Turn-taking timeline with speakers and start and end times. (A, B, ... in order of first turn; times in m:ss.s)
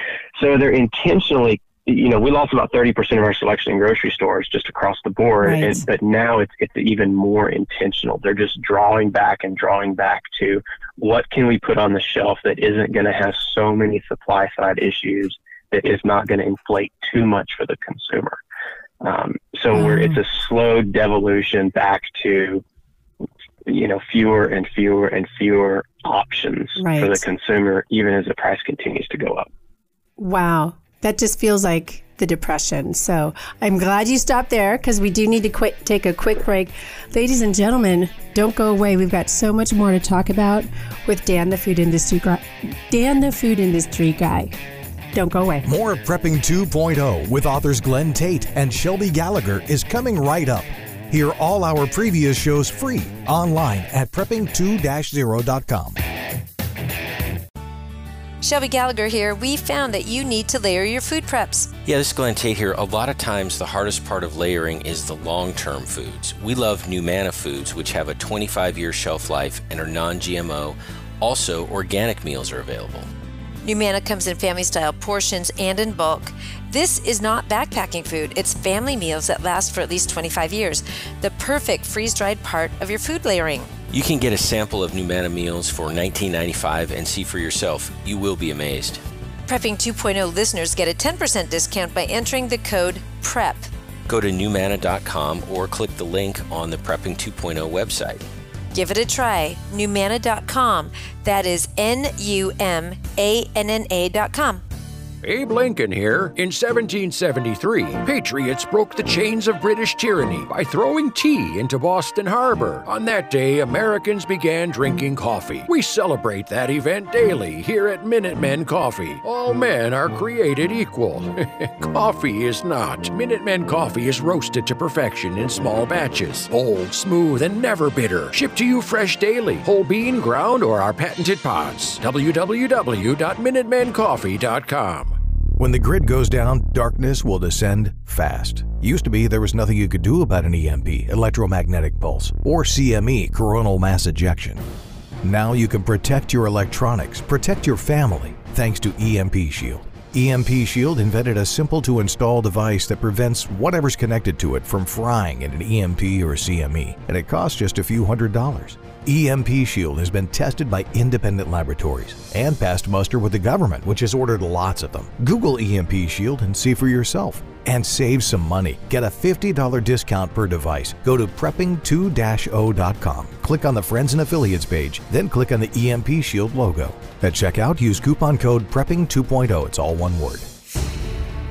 0:00.4-0:18.4 A
0:05.4-0:05.8 B
0:19.0-0:22.6 A
0:19.7-0:20.2 B
0:23.7-0:29.5 A
0:26.8-0:27.2 B
0:30.2-0:44.5 B
0:45.1-0:45.6 B
0:45.6-0:56.0 C
0:58.4-1:01.7 D
1:01.8-1:13.1 E
1:13.6-1:23.7 D
1:23.9-1:29.0 E
1:29.5-1:33.7 D
1:34.1-1:38.2 E
1:38.7-1:44.6 D
1:45.2-2:15.2 F
2:15.6-2:24.6 C
2:25.2-3:00.5 C